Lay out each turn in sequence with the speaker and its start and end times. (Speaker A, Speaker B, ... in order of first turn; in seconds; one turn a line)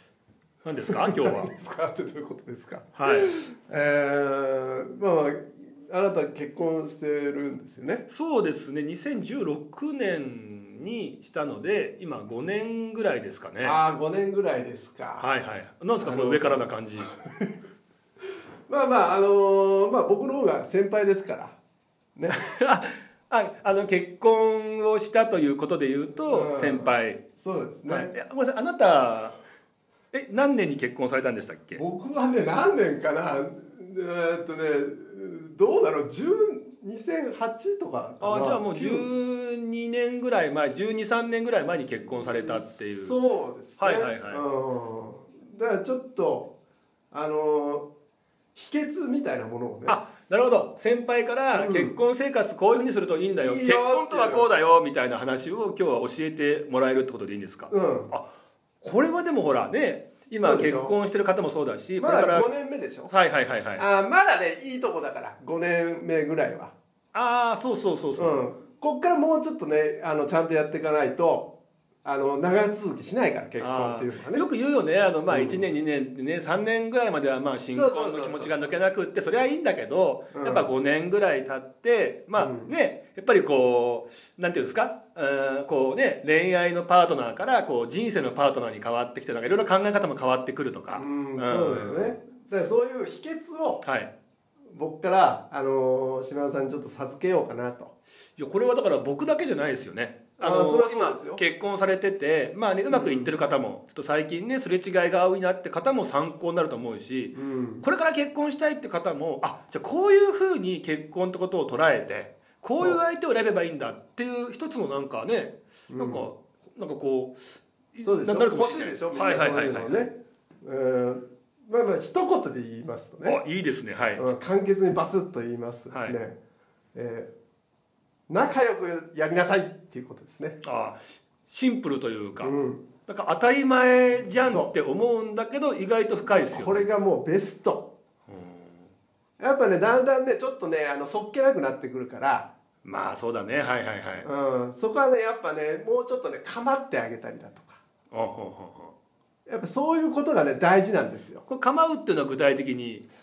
Speaker A: 0.6-1.5
Speaker B: 0.7-8.0
Speaker A: 3.0-3.3
Speaker A: 8.1-13.8
Speaker B: 13.6-15.3
Speaker A: 15.2-17.1
Speaker B: 16.0-17.5
Speaker B: 18.7-21.6
Speaker A: 22.3-27.2
Speaker B: 26.3-28.1
Speaker A: 27.9-29.4
Speaker A: 30.1-31.8
Speaker B: 31.8-39.1
Speaker A: 38.2-43.1
Speaker B: 42.2-46.5
Speaker A: 43.8-44.4
Speaker B: 47.1-47.9
Speaker B: 48.5-50.0
Speaker A: 49.9-58.3
Speaker B: 51.5-52.0
Speaker B: 53.4-54.5
Speaker B: 57.7-58.1
Speaker A: 58.8-62.5
Speaker B: 60.4-60.9
Speaker B: 62.0-63.1
Speaker A: 63.1-63.8
Speaker B: 63.8-66.7
Speaker A: 67.1-68.4
Speaker B: 68.2-71.5
Speaker B: 72.0-74.5
Speaker A: 73.6-92.2
Speaker B: 75.3-75.7
Speaker B: 77.7-78.7
Speaker B: 80.3-80.7
Speaker B: 82.4-82.7
Speaker B: 90.9-93.8
Speaker A: 93.8-94.1
Speaker B: 94.7-97.9
Speaker A: 98.4-117.4
Speaker B: 100.4-101.4
Speaker B: 102.9-103.3
Speaker B: 107.3-107.8
Speaker B: 112.7-113.0
Speaker B: 115.9-116.3
Speaker A: 117.9-120.1
Speaker B: 118.0-123.4
Speaker A: 123.2-124.3
Speaker B: 124.2-126.4
Speaker A: 125.9-126.2
Speaker B: 126.9-127.3
Speaker B: 128.3-130.6
Speaker A: 130.6-132.5
Speaker B: 132.4-132.8
Speaker A: 133.0-136.9
Speaker B: 134.4-134.7
Speaker B: 136.3-137.9
Speaker A: 138.3-138.9
Speaker B: 139.4-142.5
Speaker A: 142.8-144.3
Speaker B: 144.2-147.8
Speaker A: 148.1-148.9
Speaker B: 149.5-151.4
Speaker A: 151.5-153.0